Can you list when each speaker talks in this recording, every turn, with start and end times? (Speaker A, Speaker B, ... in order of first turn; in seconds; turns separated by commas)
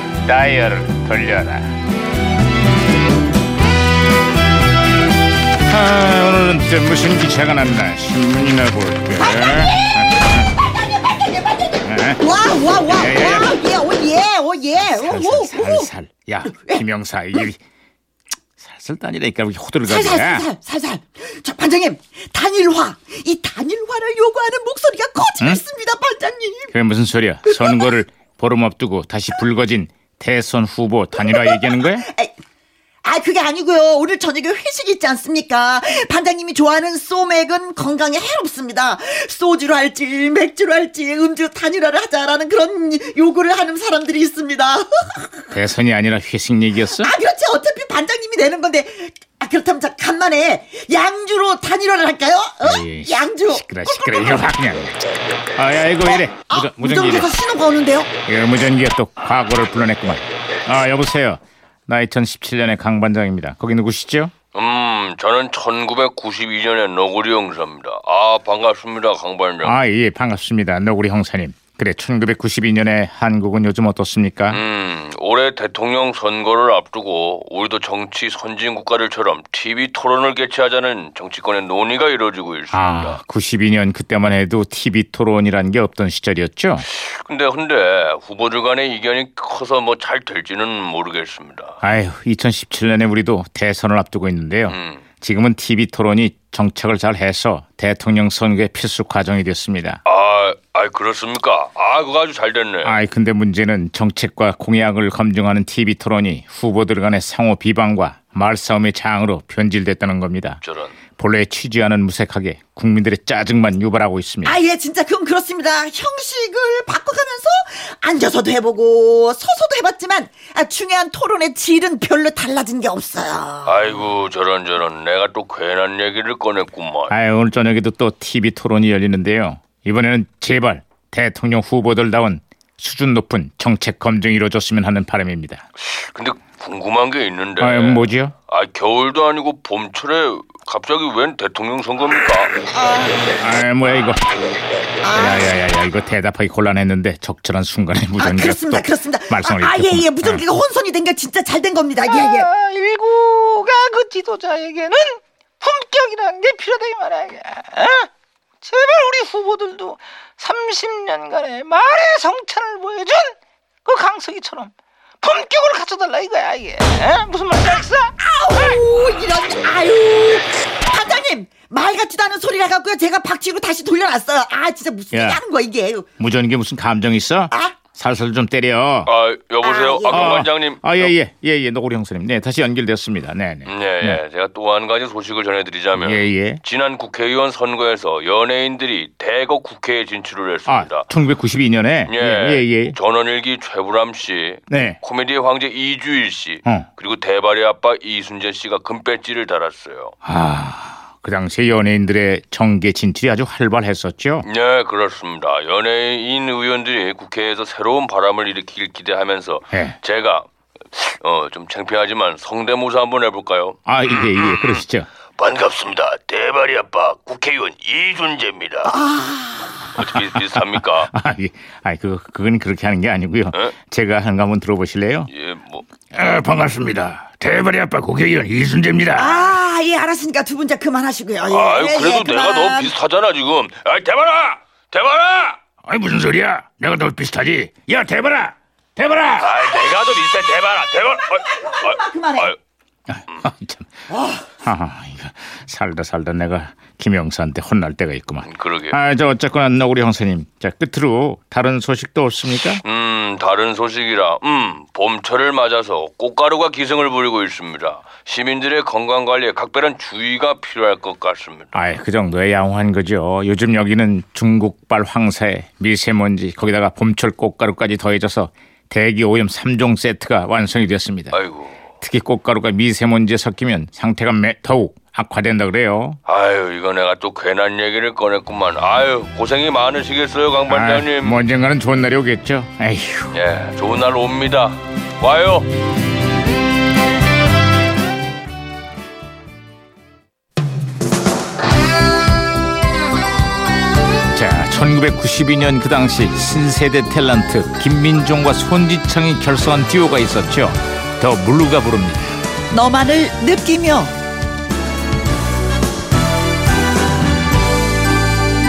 Speaker A: 0.2-1.7, Speaker A: 5.7-10.4, Speaker B: 9.2-15.9, Speaker A: 11.8-12.2, Speaker A: 12.9-13.5, Speaker A: 14.7-17.6, Speaker B: 16.4-16.8, Speaker A: 18.6-20.5, Speaker B: 19.8-26.7, Speaker A: 26.7-32.0, Speaker B: 27.4-27.9, Speaker B: 31.2-32.3, Speaker B: 33.0-45.5, Speaker A: 45.5-47.1, Speaker B: 46.8-54.4, Speaker A: 52.6-55.0, Speaker A: 55.5-57.3, Speaker B: 56.1-58.1, Speaker A: 58.3-64.3, Speaker C: 64.5-69.8, Speaker A: 69.6-74.6, Speaker C: 74.5-83.2, Speaker A: 82.7-86.8, Speaker C: 86.9-91.7, Speaker A: 91.8-100.0, Speaker C: 94.7-95.0, Speaker C: 100.0-103.0, Speaker A: 102.8-110.6, Speaker C: 110.6-111.0, Speaker A: 111.1-114.6, Speaker B: 114.4-123.9, Speaker C: 123.6-127.1, Speaker A: 127.1-135.7, Speaker C: 135.9-142.5, Speaker A: 137.6-138.3, Speaker B: 142.6-143.3, Speaker A: 143.4-144.2, Speaker B: 145.0-145.6, Speaker A: 145.1-150.4, Speaker B: 148.2-152.5, Speaker D: 152.1-158.1, Speaker D: 158.6-168.1, Speaker B: 168.2-176.1, Speaker A: 175.1-175.4, Speaker A: 176.2-179.1, Speaker B: 177.5-177.8, Speaker C: 179.1-181.1, Speaker B: 179.6-180.3, Speaker A: 180.1-184.2, Speaker C: 183.7-191.1, Speaker A: 185.9-186.6, Speaker A: 190.7-192.9, Speaker C: 192.1-200.1, Speaker A: 194.7-195.0, Speaker A: 200.2-204.4, Speaker C: 204.4-214.8, Speaker A: 209.7-210.0, Speaker A: 213.9-215.1, Speaker C: 215.4-219.0, Speaker B: 218.8-219.9, Speaker C: 220.0-221.1, Speaker A: 220.0-225.3, Speaker C: 225.3-225.8, Speaker A: 226.1-229.6, Speaker B: 229.1-232.9, Speaker C: 231.4-235.6, Speaker A: 235.8-239.6, Speaker C: 239.3-242.6, Speaker B: 241.0-242.5, Speaker A: 243.1-243.9, Speaker B: 244.1-244.5, Speaker A: 244.6-252.8, Speaker C: 248.4-249.0, Speaker C: 252.8-261.8, Speaker A: 261.7-271.4, Speaker C: 271.3-271.8, Speaker A: 272.0-276.2, Speaker C: 276.3-281.4, Speaker A: 280.7-283.3, Speaker C: 283.3-285.7, Speaker A: 294.3-302.3, Speaker B: 302.7-304.1